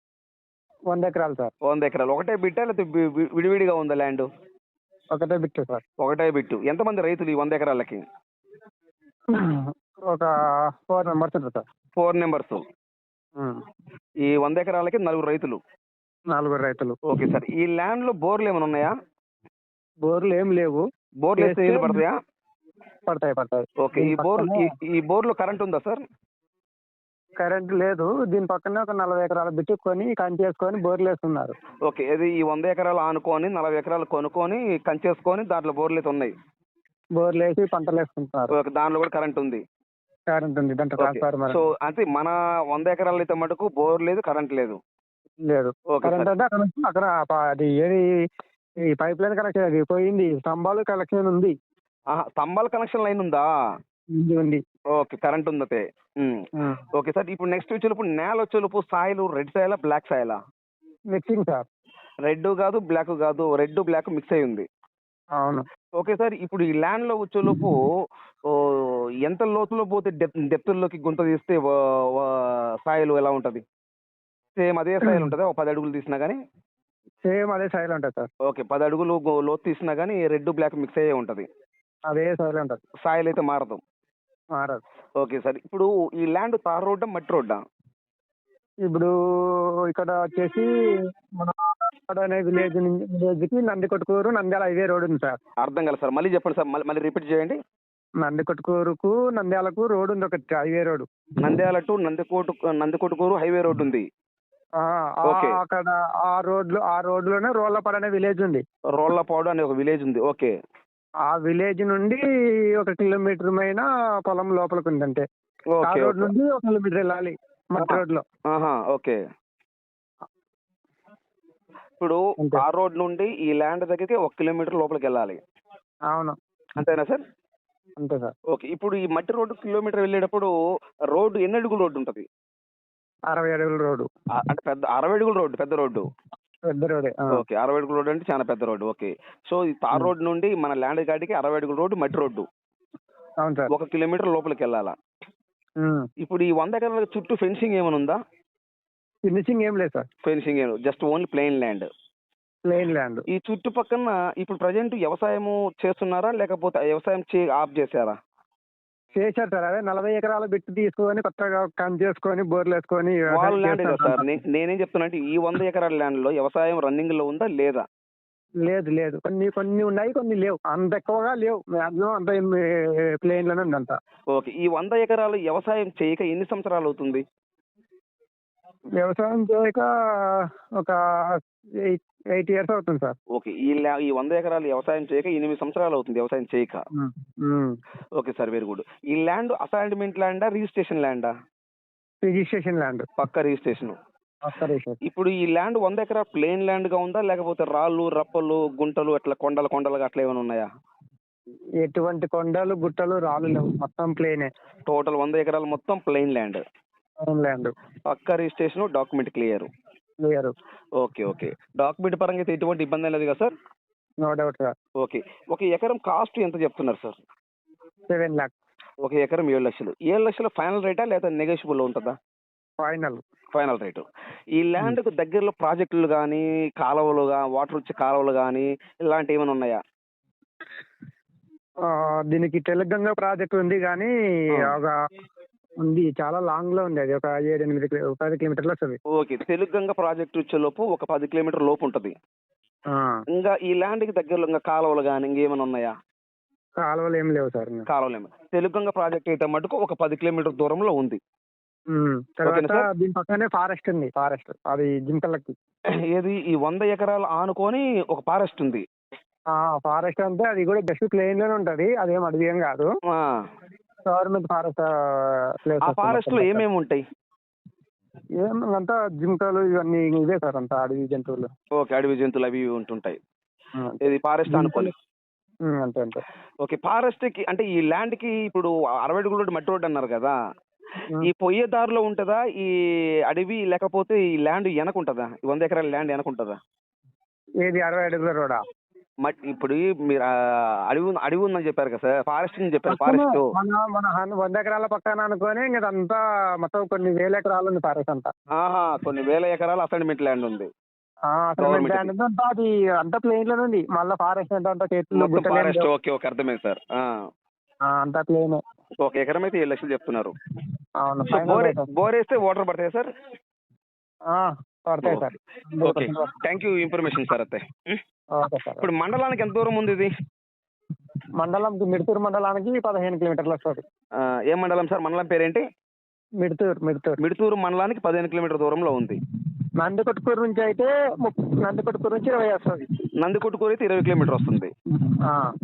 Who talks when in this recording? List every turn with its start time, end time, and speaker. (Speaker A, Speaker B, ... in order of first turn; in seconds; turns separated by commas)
Speaker A: 0.9-1.5, Speaker B: 1.6-4.3, Speaker A: 5.1-5.8, Speaker B: 6.0-8.0, Speaker A: 9.3-10.3, Speaker A: 10.8-11.6, Speaker B: 12.0-12.6, Speaker B: 14.2-15.6, Speaker A: 16.3-17.0, Speaker B: 17.1-18.9, Speaker A: 20.1-20.9, Speaker B: 21.2-22.2, Speaker A: 21.4-22.0, Speaker A: 23.1-24.7, Speaker B: 23.8-26.0, Speaker A: 27.4-31.6, Speaker B: 31.9-36.3, Speaker A: 37.2-38.6, Speaker B: 38.5-39.6, Speaker A: 40.3-41.6, Speaker B: 41.0-44.8, Speaker A: 45.4-48.1, Speaker B: 45.9-46.3, Speaker A: 48.8-51.5, Speaker B: 52.1-53.5, Speaker A: 54.1-54.6, Speaker B: 54.9-60.4, Speaker A: 56.6-56.8, Speaker A: 61.1-61.7, Speaker B: 62.2-64.7, Speaker A: 65.4-65.7, Speaker B: 66.0-67.9, Speaker B: 68.5-73.6, Speaker B: 74.6-76.4, Speaker A: 75.0-75.3, Speaker A: 77.2-78.3, Speaker B: 78.5-81.5, Speaker A: 82.1-82.8, Speaker B: 83.0-83.8, Speaker A: 84.5-84.8, Speaker B: 85.2-87.6, Speaker A: 88.9-90.7, Speaker A: 91.4-95.4, Speaker B: 95.6-97.6, Speaker A: 98.2-101.1, Speaker B: 101.4-104.1, Speaker A: 104.8-108.6, Speaker B: 105.2-105.6, Speaker B: 108.9-110.5, Speaker A: 111.3-112.2, Speaker A: 112.8-115.2, Speaker B: 115.7-116.3, Speaker A: 115.8-118.2, Speaker B: 117.8-119.2, Speaker B: 122.0-125.4, Speaker A: 122.4-122.6, Speaker A: 126.1-126.4, Speaker B: 126.8-127.2, Speaker A: 128.0-128.3, Speaker B: 128.5-130.5, Speaker B: 131.1-132.3, Speaker A: 133.3-134.1, Speaker B: 134.3-136.1, Speaker A: 136.7-137.4, Speaker B: 137.3-142.5, Speaker A: 143.4-143.7, Speaker B: 143.7-144.9, Speaker A: 145.8-146.1, Speaker B: 146.2-148.2, Speaker A: 149.3-150.1, Speaker B: 150.2-151.9, Speaker A: 152.7-153.2, Speaker B: 153.3-158.2, Speaker A: 159.2-164.3, Speaker B: 163.3-167.8, Speaker A: 168.6-174.0, Speaker B: 174.3-177.2, Speaker A: 179.0-183.2, Speaker B: 183.3-186.8, Speaker A: 186.9-187.8, Speaker B: 188.2-191.3, Speaker A: 192.2-193.1, Speaker B: 193.2-194.0, Speaker A: 194.4-195.0, Speaker B: 195.0-200.7, Speaker A: 201.8-204.5, Speaker B: 204.9-206.6, Speaker A: 207.2-207.7, Speaker B: 208.1-209.7, Speaker A: 210.2-210.5, Speaker B: 211.0-213.5, Speaker A: 214.2-214.8, Speaker B: 215.0-217.2, Speaker A: 218.1-218.5, Speaker B: 219.0-222.2, Speaker A: 222.8-223.2, Speaker B: 223.5-224.1, Speaker B: 224.6-229.8, Speaker A: 231.9-234.9, Speaker A: 235.8-239.0, Speaker B: 239.1-242.1, Speaker A: 242.9-243.2, Speaker B: 243.3-245.9, Speaker A: 246.8-247.9, Speaker B: 247.9-251.2, Speaker A: 251.9-255.6, Speaker B: 252.4-252.9, Speaker B: 256.1-258.8, Speaker A: 259.6-262.9, Speaker B: 263.1-263.4, Speaker A: 264.1-266.6, Speaker B: 265.8-267.0, Speaker A: 268.4-271.5, Speaker B: 271.8-273.2, Speaker A: 273.8-274.9, Speaker B: 274.0-274.9, Speaker A: 275.7-276.2, Speaker B: 276.6-280.4, Speaker B: 281.2-282.7, Speaker B: 283.3-286.6, Speaker A: 287.6-288.6, Speaker B: 289.2-293.5, Speaker A: 292.9-298.3, Speaker B: 298.5-300.7, Speaker A: 301.3-305.9, Speaker B: 301.6-302.1, Speaker B: 305.1-307.1, Speaker A: 307.9-308.6, Speaker B: 309.0-310.4, Speaker A: 311.0-311.9, Speaker B: 311.3-313.1, Speaker A: 314.3-316.3, Speaker B: 315.0-315.3, Speaker B: 315.8-318.0, Speaker A: 318.4-318.9, Speaker B: 318.8-320.1, Speaker A: 321.4-323.8, Speaker B: 324.2-325.6, Speaker A: 326.4-327.2, Speaker B: 327.2-329.2, Speaker A: 329.8-332.9, Speaker B: 333.2-334.7, Speaker A: 334.9-335.5